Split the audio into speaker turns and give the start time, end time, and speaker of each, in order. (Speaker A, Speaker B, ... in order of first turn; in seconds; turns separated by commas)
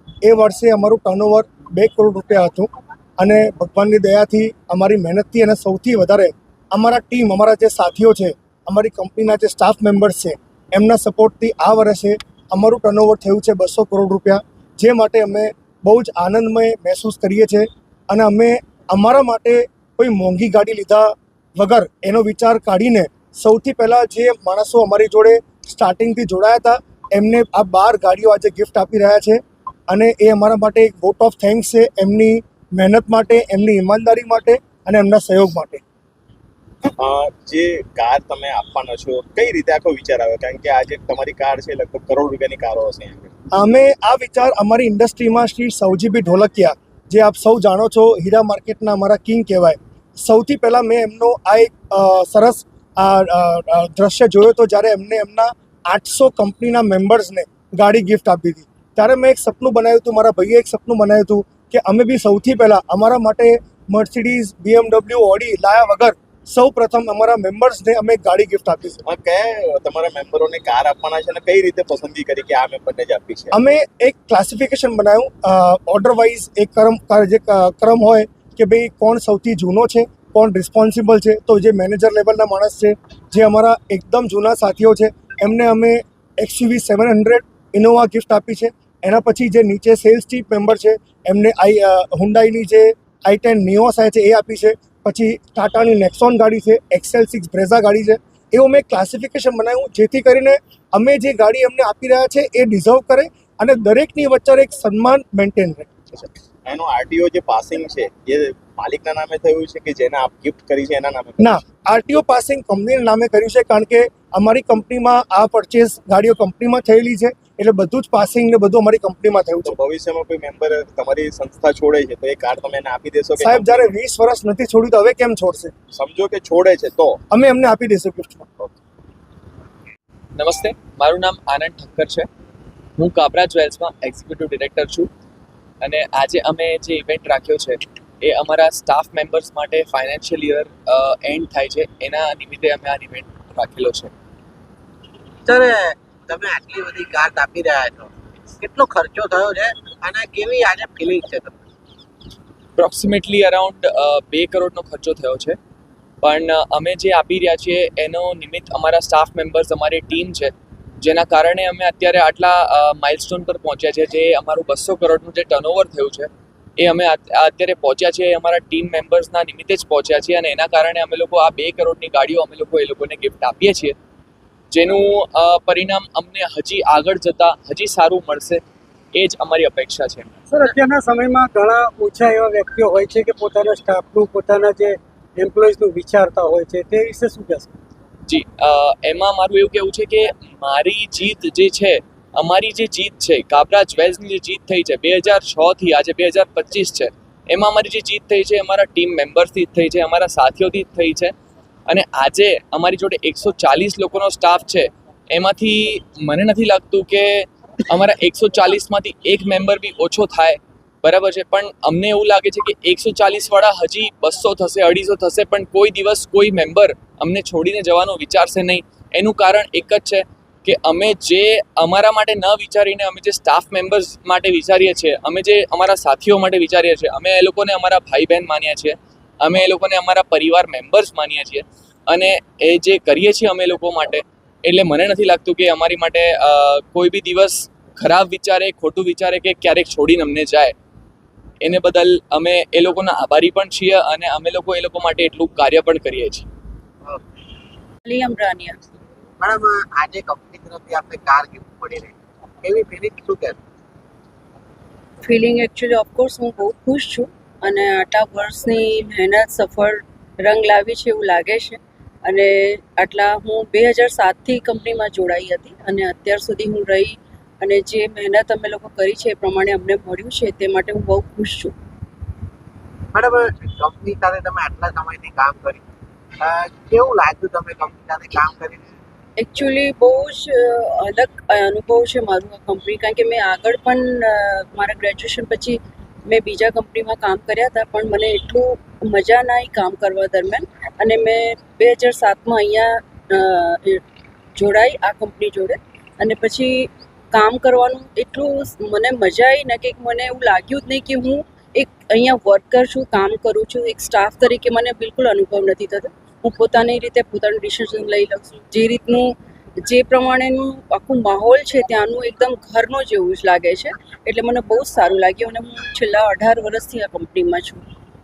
Speaker A: 0.2-35.8, Speaker B: 37.0-43.3, Speaker A: 43.5-69.0, Speaker B: 69.0-73.5, Speaker A: 73.5-105.9, Speaker B: 106.1-111.6, Speaker A: 111.4-119.8, Speaker B: 119.6-123.9, Speaker A: 123.4-125.7, Speaker B: 125.9-127.2, Speaker A: 127.3-128.5, Speaker C: 130.3-132.3, Speaker C: 133.0-135.1, Speaker C: 135.8-144.1, Speaker D: 145.4-151.6, Speaker C: 152.8-155.6, Speaker C: 156.2-173.9, Speaker C: 174.7-178.6, Speaker C: 179.1-180.4, Speaker E: 180.5-187.7, Speaker C: 188.2-201.3, Speaker C: 201.9-240.7, Speaker C: 241.6-246.4, Speaker F: 248.1-248.8, Speaker D: 249.4-253.6, Speaker F: 255.2-271.7, Speaker D: 273.1-275.8, Speaker D: 276.4-278.9, Speaker F: 279.4-294.0, Speaker F: 294.5-309.3, Speaker F: 309.8-317.8